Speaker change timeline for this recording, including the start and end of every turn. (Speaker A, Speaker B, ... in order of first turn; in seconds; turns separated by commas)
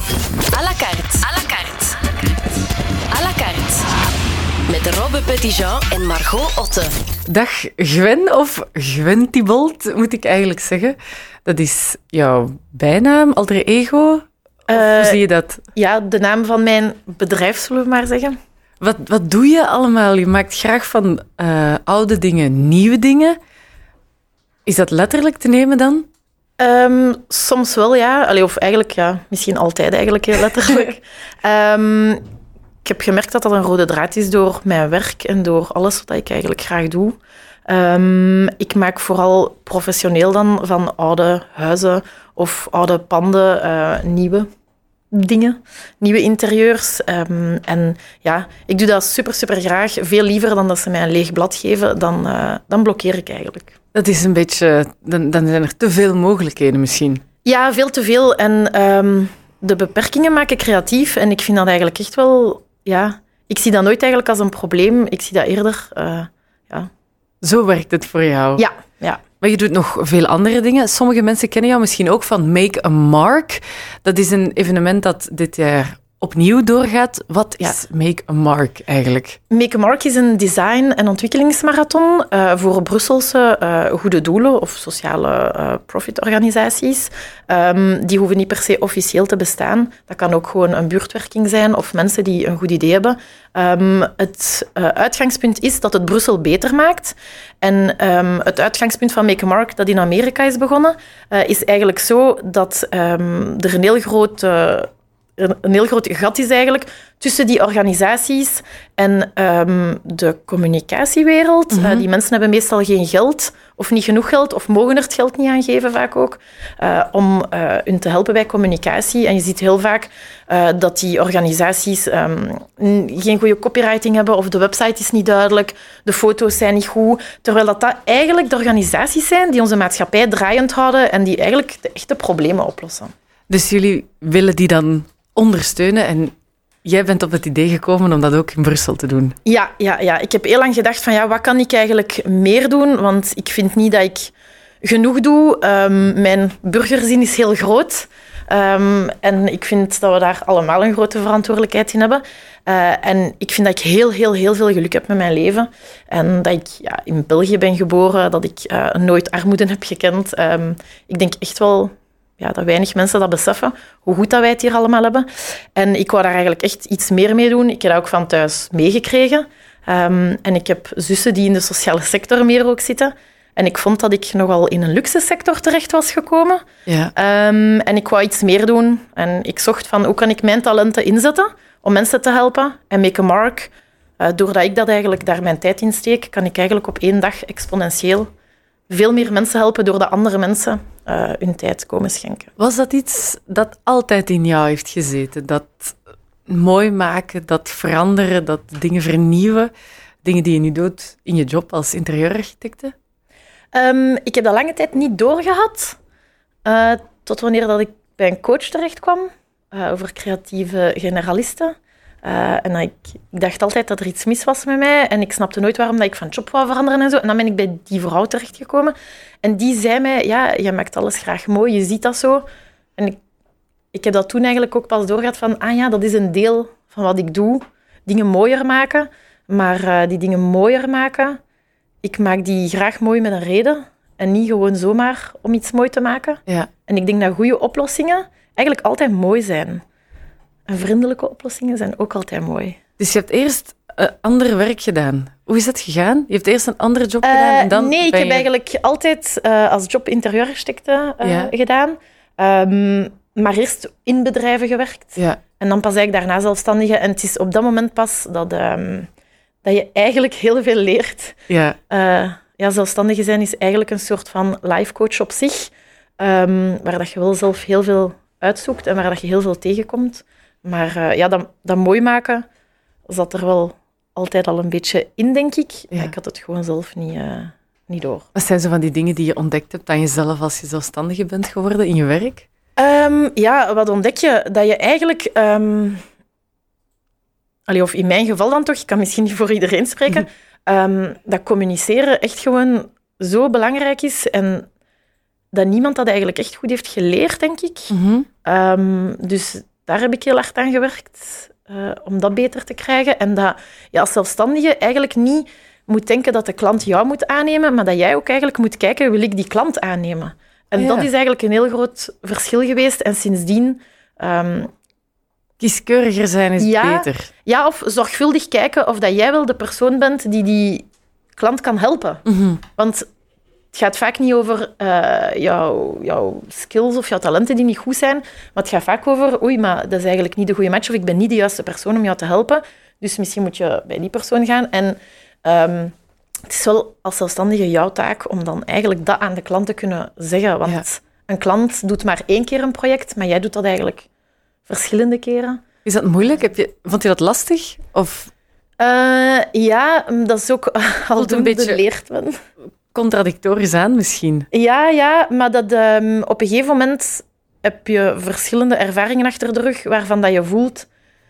Speaker A: 0.5-2.1, Speaker A: 3.1-3.9, Speaker A: 4.7-6.9, Speaker B: 7.3-15.6, Speaker C: 14.7-15.2, Speaker C: 15.7-18.4, Speaker B: 18.8-23.4, Speaker B: 24.6-26.1, Speaker C: 26.6-32.2, Speaker C: 32.8-44.5, Speaker C: 45.1-53.7, Speaker B: 53.9-57.2, Speaker C: 57.4-66.9, Speaker B: 67.4-68.7, Speaker C: 68.6-69.2, Speaker B: 69.4-79.4, Speaker C: 79.5-133.1, Speaker B: 111.7-112.0, Speaker B: 133.5-136.3, Speaker B: 136.8-139.3, Speaker C: 139.4-176.6, Speaker B: 176.9-177.1, Speaker C: 177.1-188.3, Speaker C: 188.9-192.5, Speaker B: 192.6-195.9, Speaker B: 196.5-199.7, Speaker B: 200.2-202.9, Speaker C: 203.7-206.0, Speaker C: 206.6-222.4, Speaker C: 223.9-231.4, Speaker C: 232.0-239.8, Speaker C: 240.7-242.8, Speaker B: 243.0-248.5, Speaker C: 247.2-259.1, Speaker B: 251.2-251.5, Speaker C: 259.6-261.4, Speaker B: 261.5-261.8, Speaker C: 261.9-272.4, Speaker C: 273.1-278.3, Speaker B: 278.3-282.4, Speaker C: 282.8-286.0, Speaker C: 287.7-294.7, Speaker C: 295.5-314.7, Speaker B: 297.9-298.3, Speaker B: 310.8-311.1, Speaker B: 315.6-317.3, Speaker C: 316.6-323.1, Speaker B: 322.3-322.6, Speaker C: 323.7-344.1, Speaker C: 344.7-345.6, Speaker B: 345.8-348.3, Speaker C: 348.8-352.4, Speaker B: 351.2-351.8, Speaker B: 352.9-354.5, Speaker C: 354.5-360.9